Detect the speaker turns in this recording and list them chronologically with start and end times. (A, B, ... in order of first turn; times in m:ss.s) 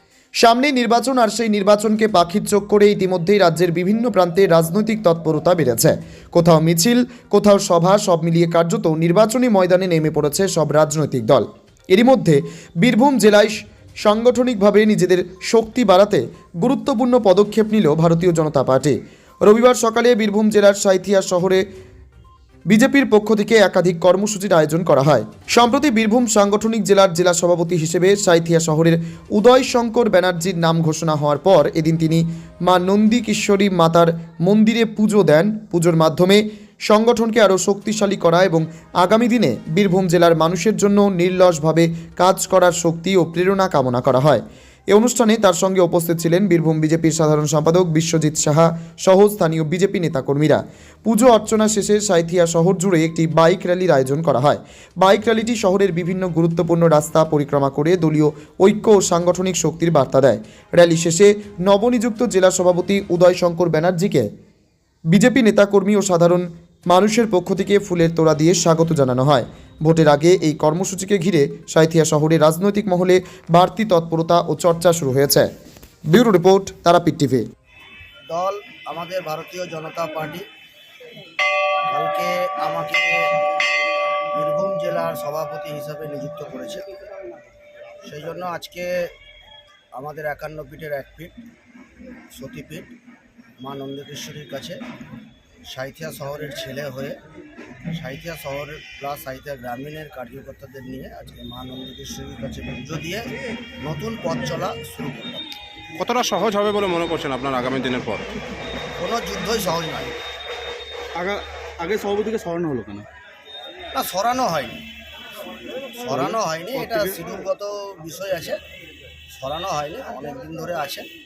0:00.4-0:21.6 A
0:22.7-1:04.3 A
1:05.1-1:15.5 A
1:16.1-1:17.4 A
1:18.3-1:20.4 B
1:21.9-1:23.3 B
1:24.3-1:26.8 B
1:28.0-1:29.1 B
1:29.9-1:31.4 B
1:32.3-1:32.9 B
1:33.6-1:34.8 B
1:35.7-1:37.2 B
1:37.9-1:43.2 B
1:43.8-1:45.5 B
1:46.0-1:48.3 C
1:49.0-1:50.1 B
1:51.2-1:53.1 D
1:53.9-1:54.8 B
1:55.9-1:58.6 B
1:56.0-1:57.2 D
1:59.3-2:01.1 B